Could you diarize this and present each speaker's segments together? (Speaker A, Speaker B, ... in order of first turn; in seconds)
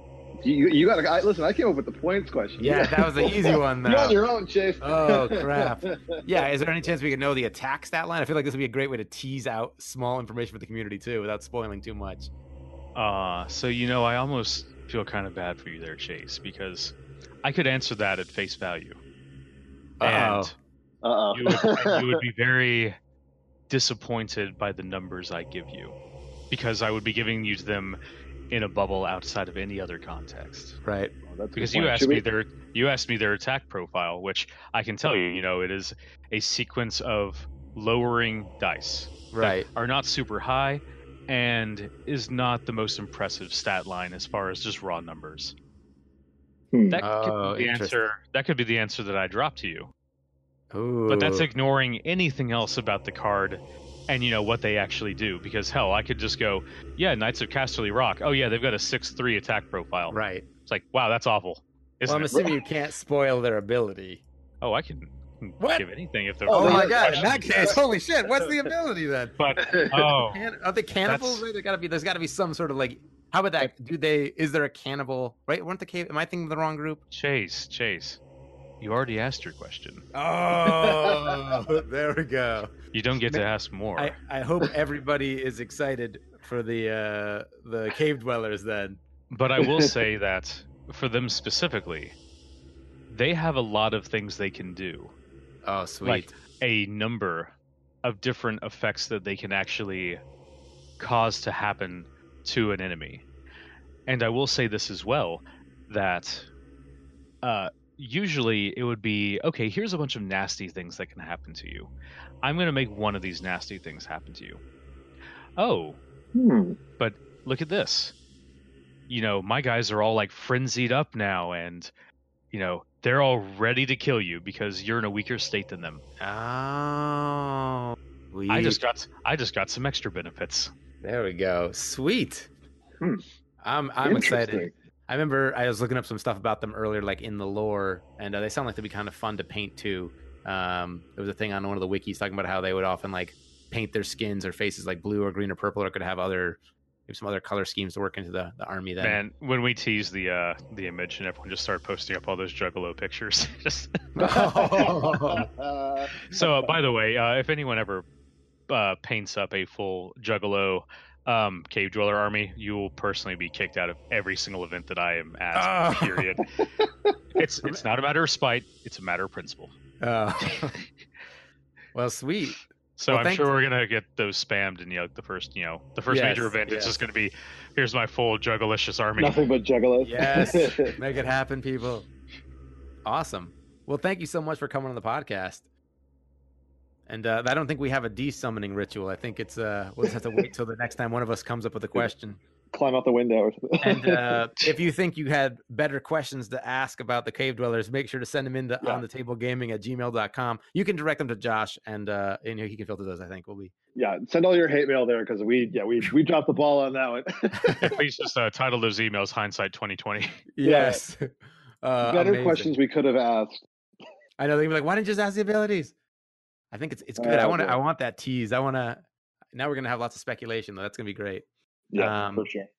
Speaker A: 0.4-6.4, 21.0-22.2, 31.2-32.2, 46.7-47.0, 66.5-68.7, 69.6-70.1, 80.6-81.4, 89.6-89.9, 116.3-116.8, 134.0-134.7, 154.8-156.5, 179.2-180.9, 190.1-190.5, 192.7-194.5, 203.9-207.8, 210.6-211.0, 212.0-213.6, 217.2-217.8, 221.9-222.7
Speaker B: 2.6-4.2, 4.8-12.3, 20.0-20.5, 30.8-31.1, 39.3-39.7, 47.0-48.0, 50.7-51.5, 60.1-60.5, 62.1-64.2, 65.6-65.9, 66.5-77.0, 80.1-83.5, 84.0-89.0, 95.6-96.3, 126.2-128.8, 131.0-132.5, 133.6-149.2, 154.2-155.5, 165.5-166.3, 170.0-170.8, 171.9-173.5, 176.1-177.0, 180.0-182.1, 183.1-185.7, 187.1-192.4, 193.8-203.7, 207.7-207.9, 210.5-211.3, 211.8-212.7, 214.4-215.9, 216.7-221.4, 222.0-222.5
Speaker C: 12.9-19.0, 20.0-20.6, 21.3-23.0, 23.7-26.0, 26.5-28.0, 28.5-30.8, 31.6-45.5, 46.9-49.9, 51.1-60.2, 60.7-62.3, 64.6-67.8, 69.4-70.4, 71.0-71.5, 77.1-78.2, 78.8-80.0, 82.9-84.2, 89.3-92.2, 93.1-95.1, 96.0-97.5, 98.0-100.2, 101.0-103.2, 104.1-106.5, 107.4-111.9, 112.4-114.6, 115.6-116.0, 117.0-118.2, 119.1-121.9, 122.5-126.0, 128.5-130.7, 149.0-154.9, 156.3-158.1, 158.7-166.5, 167.4-169.8, 170.5-170.9, 173.0-179.5, 207.8-210.4